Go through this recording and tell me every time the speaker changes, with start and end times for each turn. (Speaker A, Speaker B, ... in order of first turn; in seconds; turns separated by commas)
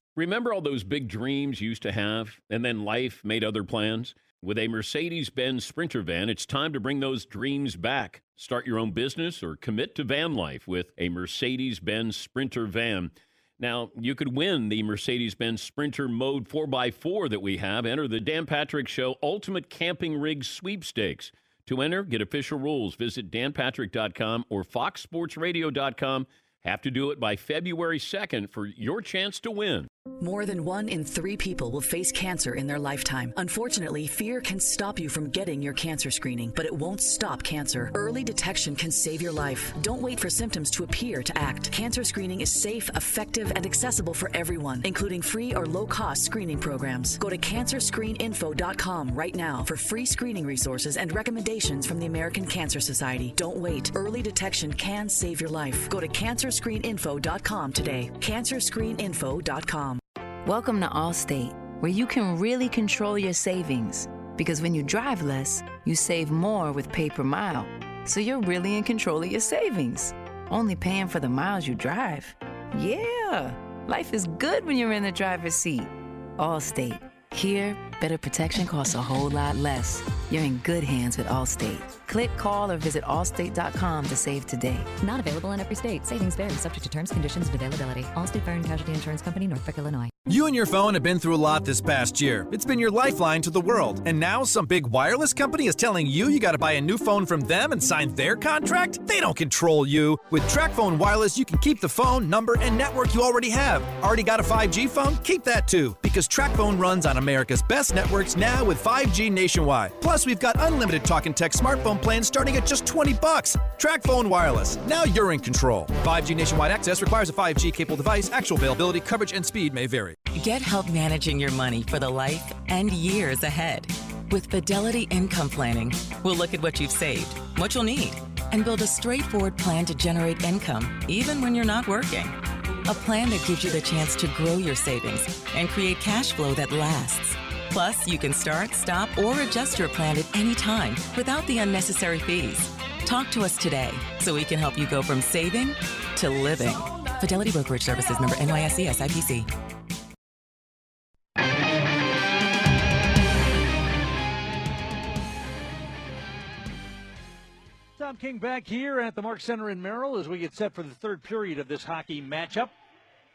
Speaker A: 0.1-29.9, Speaker B: 30.2-60.0, Speaker C: 60.4-84.9, Speaker D: 85.0-90.1, Speaker E: 90.3-120.2, Speaker F: 120.3-149.5, Speaker G: 158.0-162.7